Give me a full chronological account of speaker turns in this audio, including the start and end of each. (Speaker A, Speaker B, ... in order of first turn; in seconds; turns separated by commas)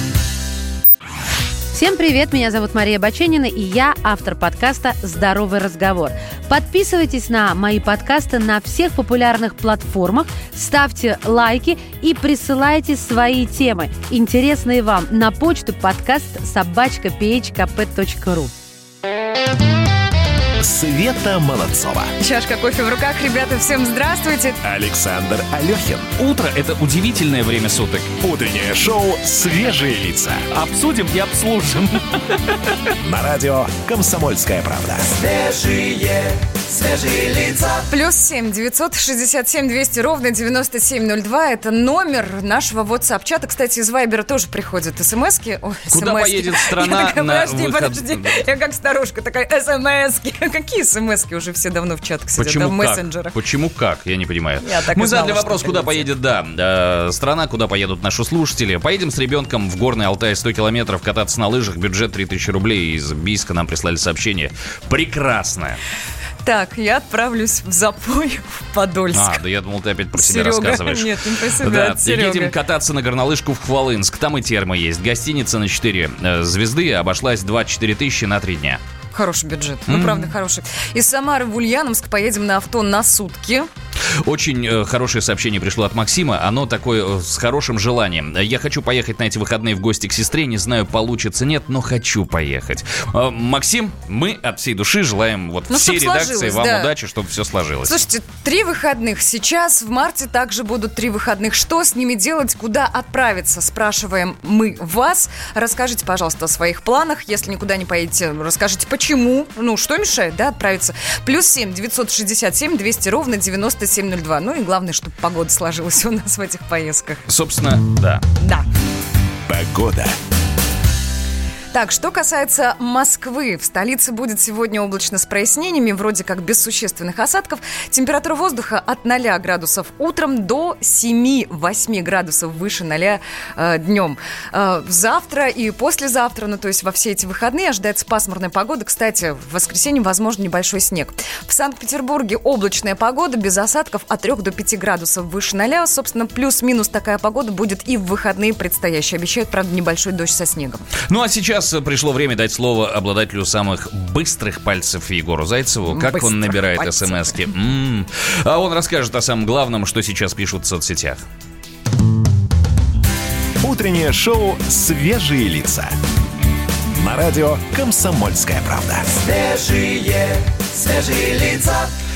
Speaker A: 1.7-18.5, Speaker B: 20.6-22.1, Speaker C: 22.2-24.6, Speaker B: 24.6-26.1, Speaker D: 26.2-28.1, Speaker B: 28.2-30.5, Speaker D: 30.5-32.2, Speaker B: 33.0-35.1, Speaker E: 35.2-37.7, Speaker C: 37.9-53.4, Speaker D: 45.9-48.4, Speaker D: 52.4-65.8, Speaker C: 54.6-56.1, Speaker C: 66.4-69.4, Speaker D: 69.1-78.8, Speaker C: 70.1-72.5, Speaker C: 79.1-83.7, Speaker D: 79.9-80.3, Speaker D: 84.2-98.0, Speaker C: 95.7-96.9, Speaker C: 97.8-117.2, Speaker D: 117.3-118.2, Speaker C: 118.4-118.7, Speaker B: 119.5-120.2, Speaker C: 121.7-150.8, Speaker D: 151.1-161.2, Speaker C: 155.9-157.5, Speaker B: 163.6-165.9, Speaker B: 167.0-169.1, Speaker E: 169.1-171.9